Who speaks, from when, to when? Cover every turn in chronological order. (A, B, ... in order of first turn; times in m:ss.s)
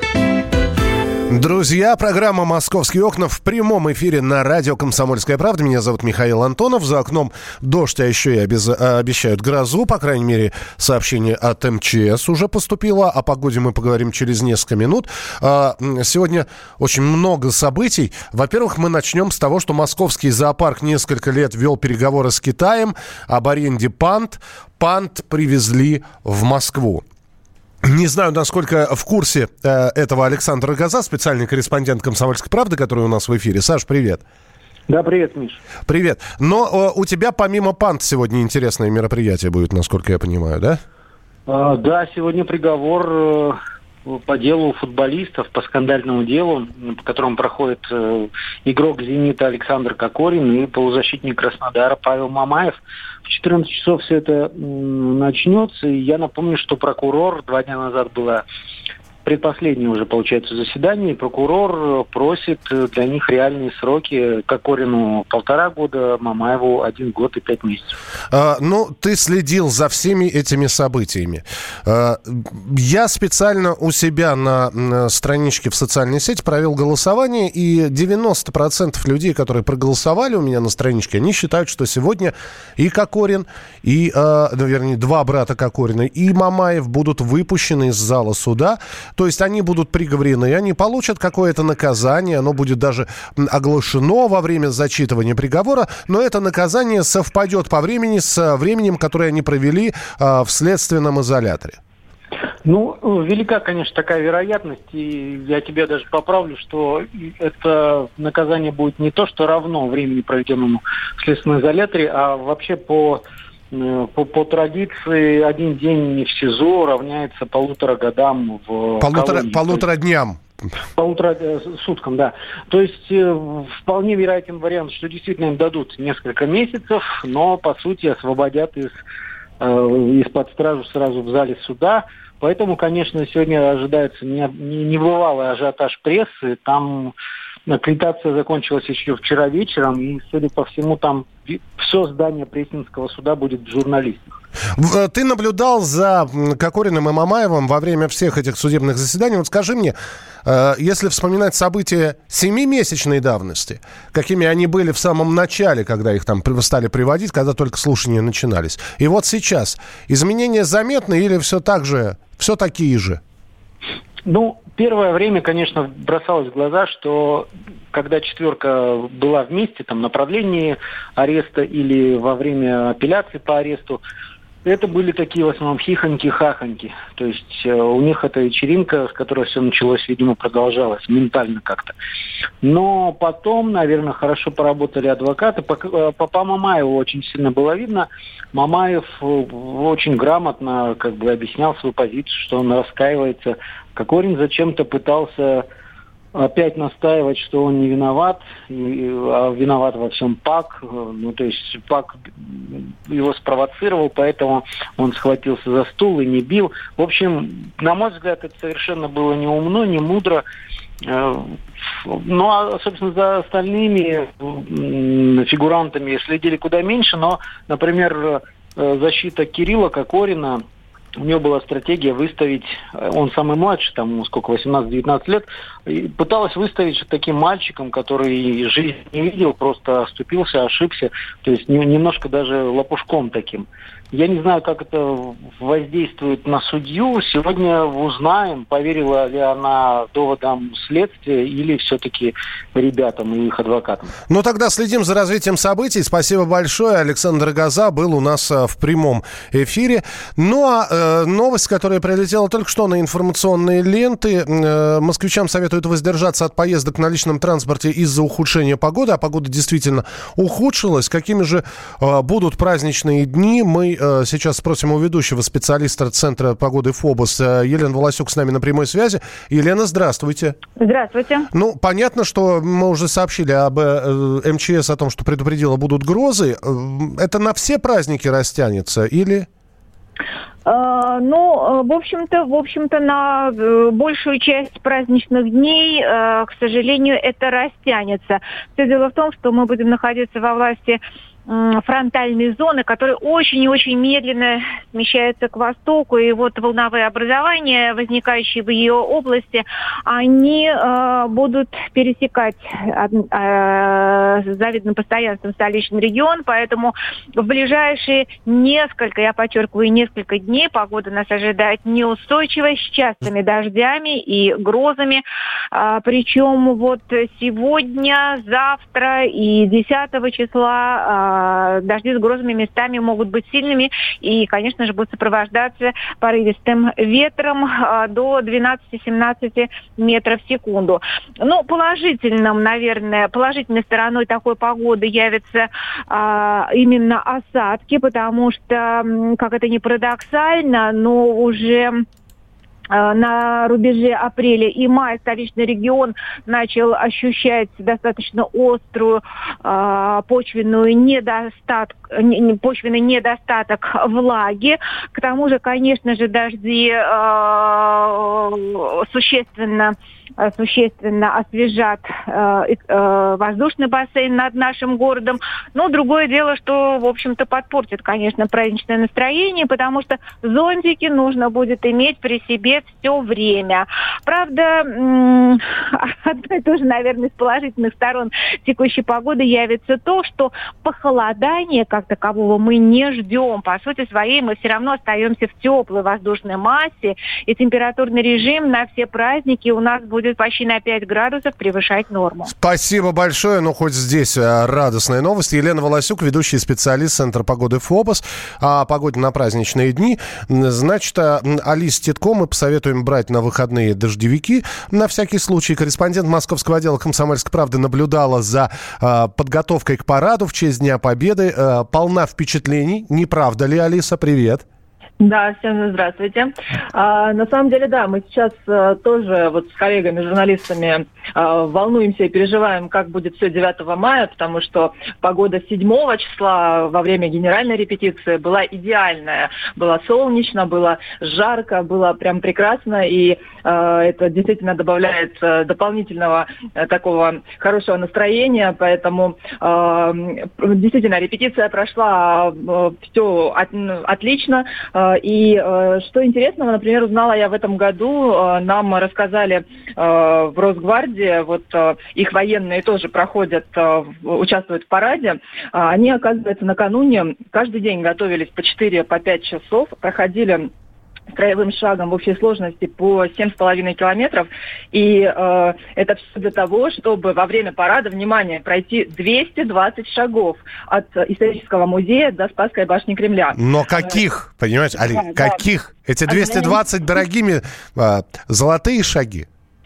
0:01.3-0:27.0 A
0:27.8-0:34.2 A
0:34.9-0:35.6 B
0:35.8-0:40.8 A
0:41.5-0:58.4 B
0:59.2-1:07.9 B
1:08.3-1:41.8 A
1:42.6-1:59.8 B
1:59.0-2:00.4 A
2:01.0-2:09.0 B
2:09.6-2:17.1 B
2:17.7-2:24.4 B
2:24.8-2:43.2 A
2:44.3-2:54.0 B
2:54.6-3:01.9 B
3:02.6-3:15.7 B
3:16.4-3:30.4 B
3:31.0-3:40.6 B
3:41.2-4:04.1 B
4:04.3-4:30.6 A
4:30.8-4:31.5 C
4:31.5-4:39.5 A
4:40.6-5:42.0 C
5:42.9-6:32.5 C
6:32.5-6:54.6 A
6:55.2-7:40.7 D
7:41.3-7:54.0 D
7:53.5-7:59.5 A
7:55.1-7:55.6 D
7:56.3-7:56.8 D